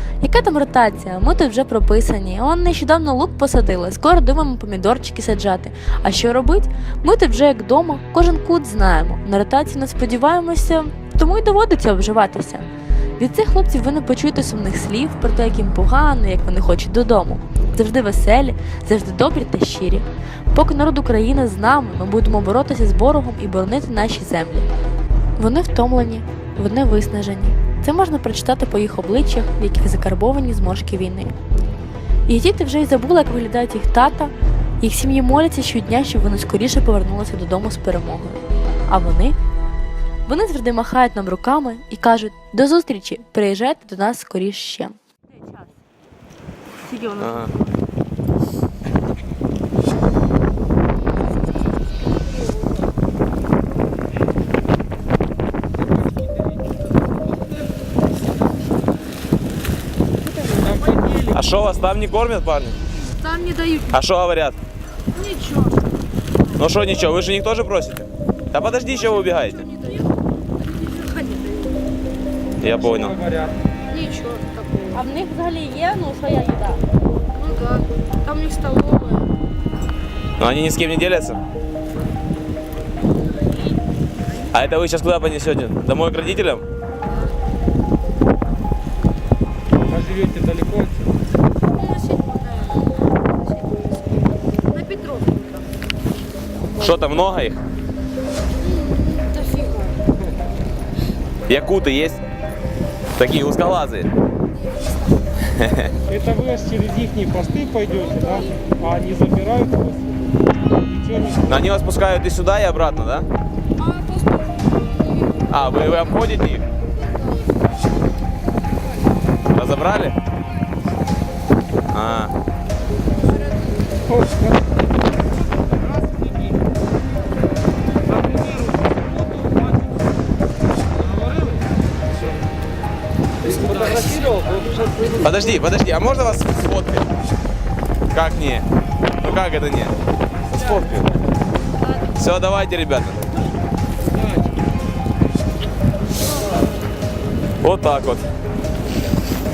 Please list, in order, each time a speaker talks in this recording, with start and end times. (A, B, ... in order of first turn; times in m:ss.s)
0:00.2-0:24.7 A
0:25.4-0:31.3 A
0:32.3-0:39.4 A
0:40.2-0:45.0 A
0:47.1-0:47.5 B
1:00.4-1:01.2 C
1:00.6-1:01.2 D
1:01.2-1:02.8 B
1:03.2-1:04.0 D
1:03.9-1:04.6 B
1:05.1-1:05.8 D
1:06.6-1:09.7 B
1:09.2-1:11.8 D
1:12.6-1:13.2 B
1:12.8-1:13.5 C
1:13.9-1:15.0 D
1:14.9-1:16.8 A
1:17.3-1:19.3 D
1:20.4-1:21.4 B
1:24.5-1:26.6 B
1:29.9-1:31.0 C
1:31.7-1:33.9 D
1:34.7-1:35.6 D
1:36.7-1:37.6 B
1:38.6-1:40.0 D
1:41.5-1:42.2 B
1:43.2-1:44.1 B
1:45.4-1:45.9 B
1:46.0-1:51.4 C
1:48.1-1:48.4 D
1:51.4-1:53.3 B
1:53.8-1:55.5 D
1:55.5-1:56.6 B
1:59.5-2:00.1 B
2:01.9-2:02.3 B
2:13.5-2:14.6 C
2:15.1-2:17.0 B
2:18.1-2:18.7 B
2:19.2-2:20.0 B
2:20.5-2:21.1 B
2:22.0-2:23.2 B
2:27.6-2:28.3 B